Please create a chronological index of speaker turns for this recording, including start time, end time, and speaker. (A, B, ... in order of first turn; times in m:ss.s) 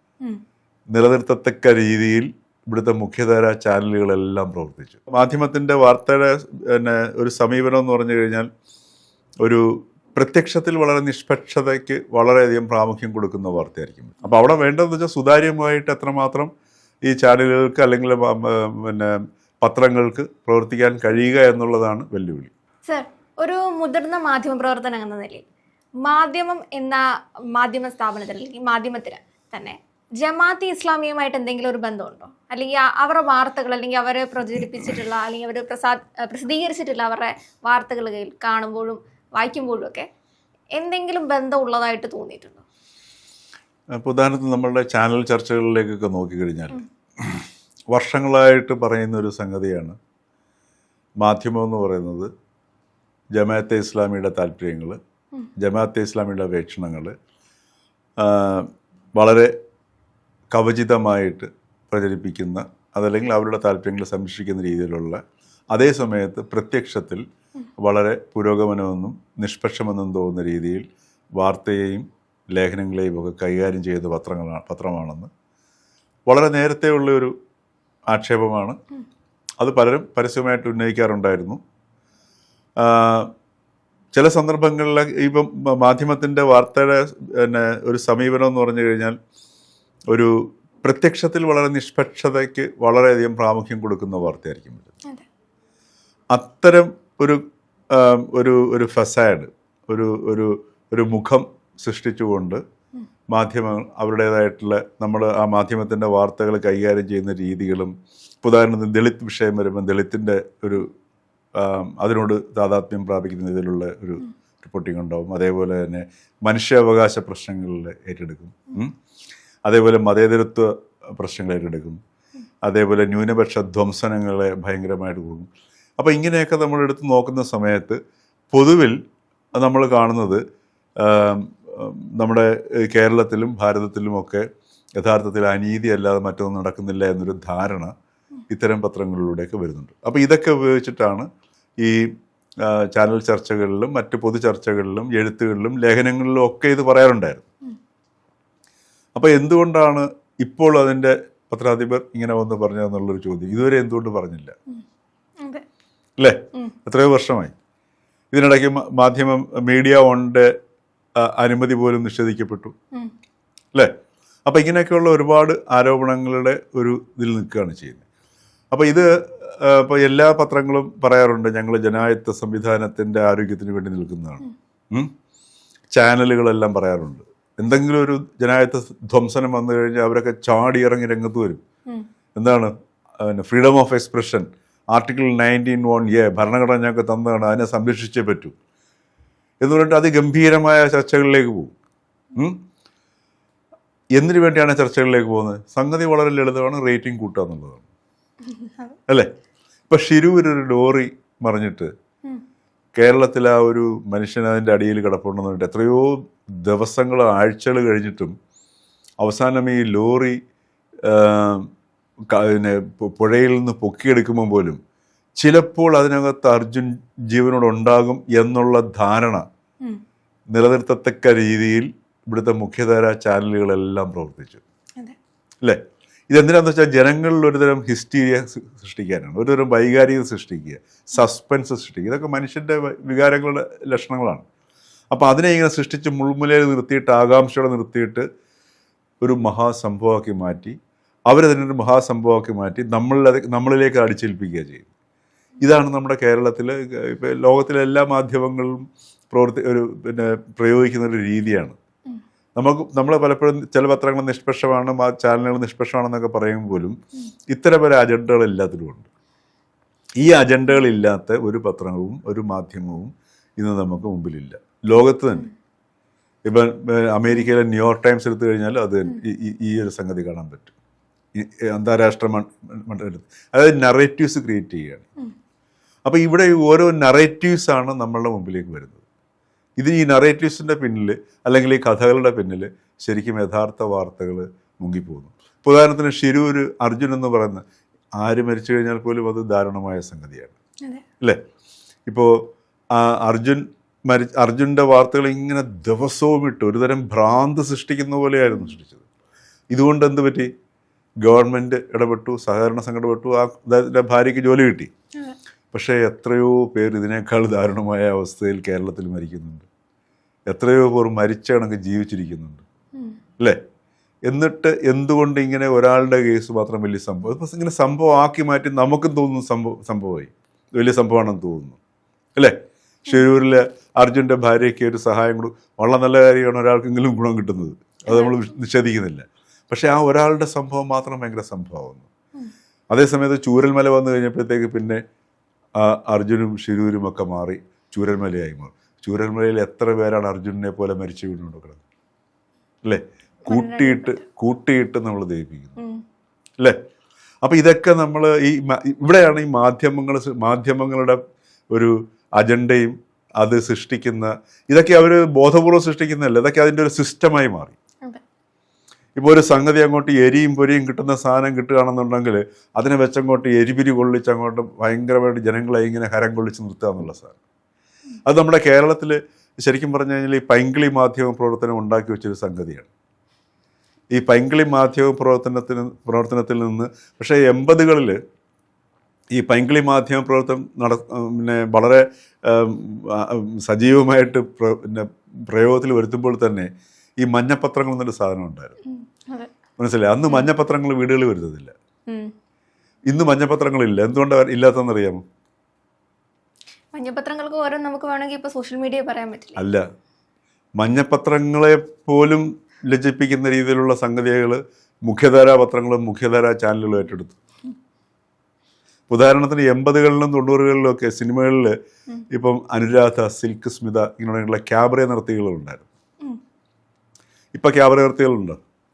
0:00.9-0:08.5 A
0:09.4-0:16.5 A
0:17.1-0:22.5 A
0:22.9-0:25.4 B
0:26.0-0:27.0 B
0:27.6-0:40.1 B
0:40.8-0:42.6 B
0:43.9-0:50.0 A
0:51.2-0:52.3 A
0:53.4-0:55.0 A
0:55.6-0:57.1 A
0:58.2-0:59.5 A
1:00.5-1:05.2 A
1:05.7-1:07.2 A
1:07.8-1:10.9 A
1:11.4-1:15.3 A
1:16.3-1:17.3 A
1:18.1-1:18.8 A
1:19.6-1:21.6 A
1:22.8-1:23.3 A
1:24.2-1:29.2 A
1:30.1-1:34.9 A
1:36.3-1:42.6 A
1:43.3-1:50.9 A
1:51.6-1:58.9 A
1:59.7-2:02.0 A
2:02.6-2:05.5 A
2:06.0-2:08.0 A
2:08.5-2:09.0 A
2:09.5-2:10.4 A
2:11.0-2:14.5 A
2:15.0-2:17.9 A
2:18.5-2:21.3 A
2:21.8-2:22.1 A
2:22.6-2:27.5 A
2:29.2-2:34.6 A
2:36.2-2:37.5 A
2:38.3-2:40.5 A
2:41.2-2:42.7 A
2:44.5-2:48.0 A
2:48.7-2:55.1 A
2:56.0-3:01.6 A
3:02.4-3:08.5 A
3:09.6-3:11.7 A
3:12.4-3:12.6 A
3:14.2-3:17.9 A
3:18.4-3:19.0 B
3:19.9-3:21.9 A
3:23.0-3:28.4 A
3:29.2-3:30.4 A
3:31.0-3:31.7 A
3:32.3-3:34.8 A
3:35.4-3:39.4 A
3:40.5-3:44.6 A
3:45.6-3:54.4 A
3:55.1-3:58.3 A
3:59.2-4:00.8 A
4:01.3-4:04.9 A
4:05.6-4:11.8 A
4:12.6-4:17.0 A
4:17.5-4:19.1 A
4:20.2-4:25.5 A
4:26.5-4:30.7 A
4:31.4-4:35.1 A
4:36.0-4:39.0 A
4:39.8-4:47.6 A
4:48.2-4:50.6 A
4:52.1-4:59.0 A
4:59.7-5:00.5 A
5:01.2-5:04.9 A
5:05.7-5:09.6 A
5:10.5-5:12.6 A
5:14.3-5:21.8 A
5:22.4-5:32.1 A
5:28.1-5:28.4 B
5:32.9-5:35.0 A
5:35.8-5:41.8 A
5:42.8-5:45.8 A
5:43.5-5:44.2 B
5:45.8-5:46.0 B
5:47.4-5:51.2 A
5:51.7-5:57.8 A
5:59.2-6:07.4 A
6:08.3-6:12.9 A
6:14.1-6:18.2 A
6:19.4-6:28.8 A
6:28.9-6:29.5 B
6:29.8-6:31.7 A
6:32.1-6:32.3 B
6:33.1-6:35.2 A
6:36.9-6:39.6 B
6:39.6-6:39.8 A
6:40.8-6:47.4 A
6:49.1-6:51.8 A
6:52.3-6:55.9 A
6:57.6-6:58.6 A